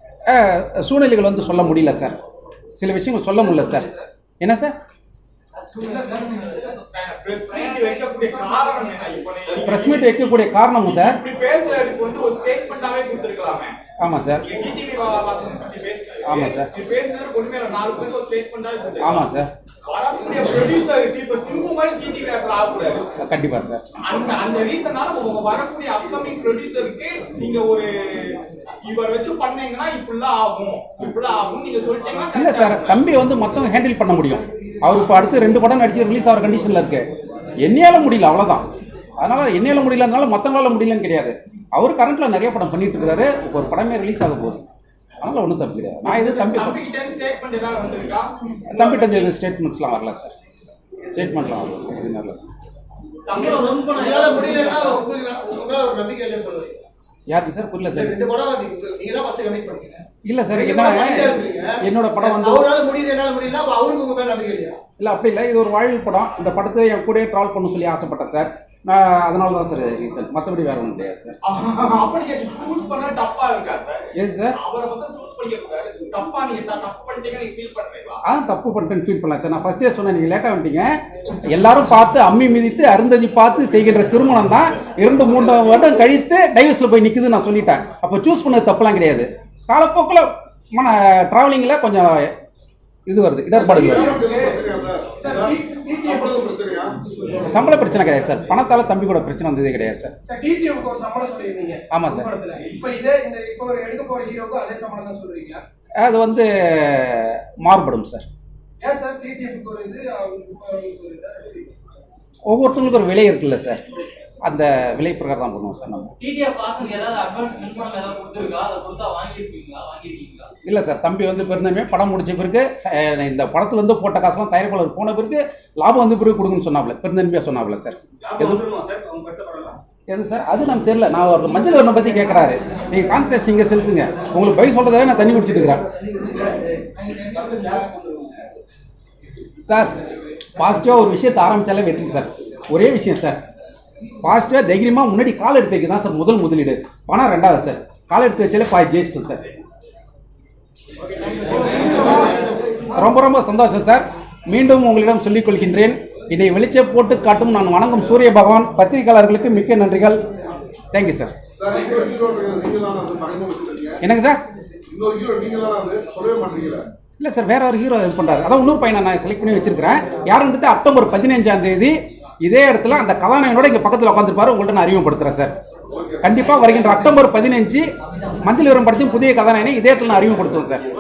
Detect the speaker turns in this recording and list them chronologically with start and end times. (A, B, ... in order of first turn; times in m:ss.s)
0:00.3-0:02.2 A
0:02.8-0:03.9 A
0:03.4-0:04.1 B
0:04.4-0:04.8 A
0:05.9-0:13.7 C
0:05.9-0:06.2 D
0:07.5-0:09.0 B
0:09.6-0:11.2 A
0:14.0-0:14.4 A
0:14.4-0:19.3 C
0:16.2-0:16.7 A
0:19.0-0:19.5 A
0:19.9-0:23.0 C
0:23.2-0:23.8 A
0:24.0-0:33.0 C
0:32.3-0:37.1 A
0:37.6-0:38.7 A
0:39.2-0:44.6 A
0:45.2-0:46.8 A
0:46.1-0:49.3 C
0:48.7-0:50.3 A
0:51.1-0:52.5 A
0:53.3-0:55.0 D
0:53.3-0:56.8 E
0:57.3-0:58.2 A
0:57.9-1:04.8 E
1:00.2-1:02.7 A
1:05.0-1:11.4 A
1:11.4-1:18.2 C
1:14.2-1:14.6 A
1:18.3-1:20.9 A
1:21.4-1:32.3 A
1:33.1-1:34.2 A
1:33.5-1:37.0 F
1:33.7-1:36.5 G
1:37.4-1:40.1 A
1:40.2-1:45.6 G
1:41.9-1:42.3 A
1:46.0-1:48.2 A
1:48.8-1:51.7 G
1:52.5-1:53.8 A
1:54.4-1:56.1 A
1:56.2-2:00.5 D
2:00.6-2:08.6 A
2:08.2-2:09.8 B
2:10.1-2:15.8 A
2:16.0-2:16.4 E
2:17.4-2:18.2 B
2:19.7-2:19.9 A
2:20.6-2:23.4 A
2:24.2-2:29.4 A
2:31.5-2:33.1 E
2:33.0-2:40.2 A
2:40.9-2:41.3 A
2:41.6-2:44.0 F
2:44.0-2:44.4 A
2:44.9-2:46.9 F
2:47.2-2:55.5 A
2:55.9-2:56.3 F
2:56.2-2:57.8 A
2:58.4-3:00.8 A